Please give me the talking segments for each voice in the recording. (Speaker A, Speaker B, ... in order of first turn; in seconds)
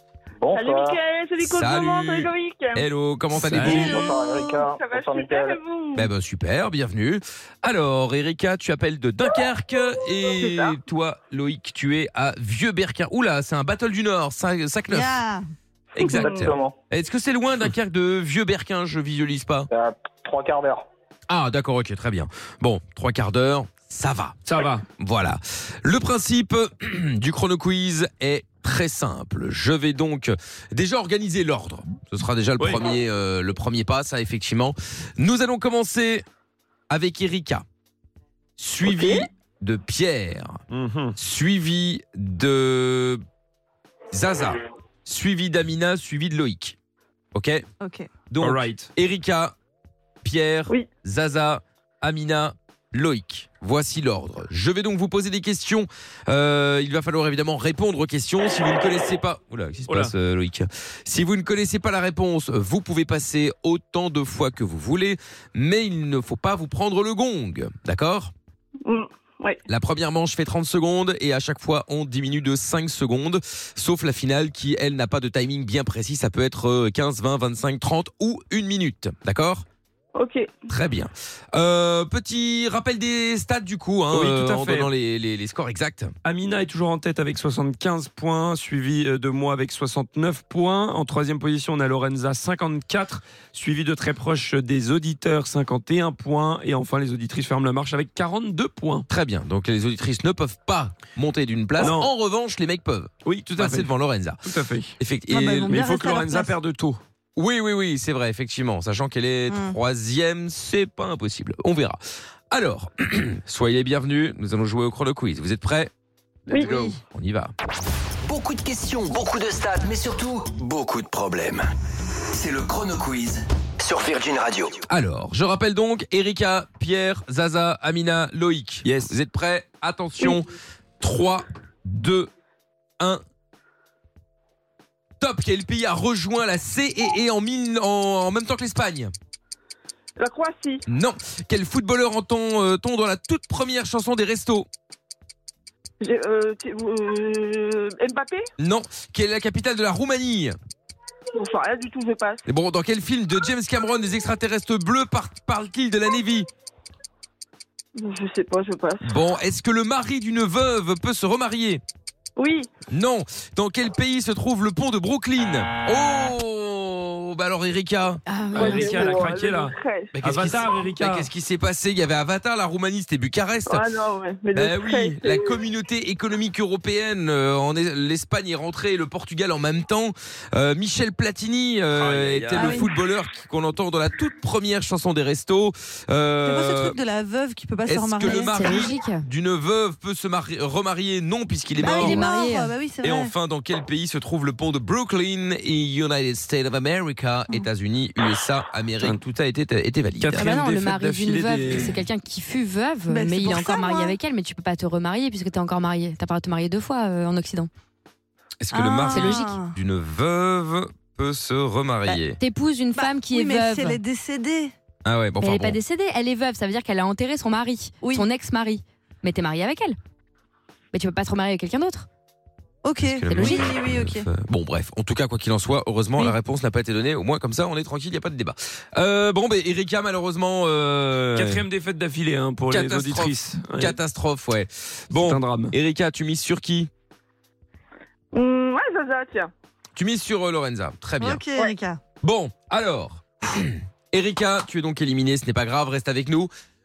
Speaker A: 0.4-1.0, 3.5-5.6, 16.0-16.7, 19.7-20.9
Speaker B: 0.5-2.8, 3.7-6.0, 68.8-69.6, 80.1-80.5, 116.5-116.8, 140.2-140.8, 146.0-148.4, 151.3-152.4, 157.9-159.1, 162.4-162.7, 168.5-170.1, 173.7-175.5, 188.3-189.2, 201.0-202.5, 203.2-203.9, 212.4-213.2, 223.3-223.6, 238.3-239.5
Speaker C: 1.4-4.1, 5.9-15.2, 15.9-19.7, 21.3-24.4, 25.0-36.2, 36.9-37.6, 38.6-40.6, 41.2-43.2, 44.1-46.8, 47.3-47.6, 48.3-49.5, 50.2-68.3, 69.7-79.6, 80.7-86.1, 99.1-104.4, 105.0-105.8, 107.3-112.0, 112.5-115.9, 116.5-117.5, 124.9-132.3, 135.2-139.1, 140.9-144.7, 148.6-150.6, 152.4-156.5, 159.0-161.8, 162.9-169.2, 170.1-173.9, 174.5-187.0, 187.9-192.3, 193.0-200.5, 208.6-212.4, 215.0-215.8, 223.0-231.6, 232.7-236.9, 239.9-241.4, 242.2-246.5
Speaker D: 3.4-3.9, 24.4-24.8, 40.7-41.2, 48.4-48.9, 59.9-60.1, 84.1-84.9, 86.2-99.1, 101.8-102.1, 103.2-103.9, 104.4-105.0, 105.7-107.0, 128.8-129.1, 168.5-171.3, 182.0-182.9, 200.2-202.0, 231.3-234.0, 235.1-235.7
Speaker E: 14.9-15.5, 47.8-48.1, 105.3-106.5, 109.5-109.8, 182.5-182.8, 186.4-188.9, 191.8-193.3, 203.1-204.2, 208.7-209.7, 212.9-214.7, 218.0-218.3, 222.8-224.3, 241.2-242.0
Speaker F: 118.2-121.7, 122.3-124.8
Speaker G: 168.3-169.0, 188.2-189.2, 191.8-192.7, 200.4-207.7, 209.2-209.5, 212.4-214.0, 215.4-219.9, 220.9-222.1, 223.3-223.7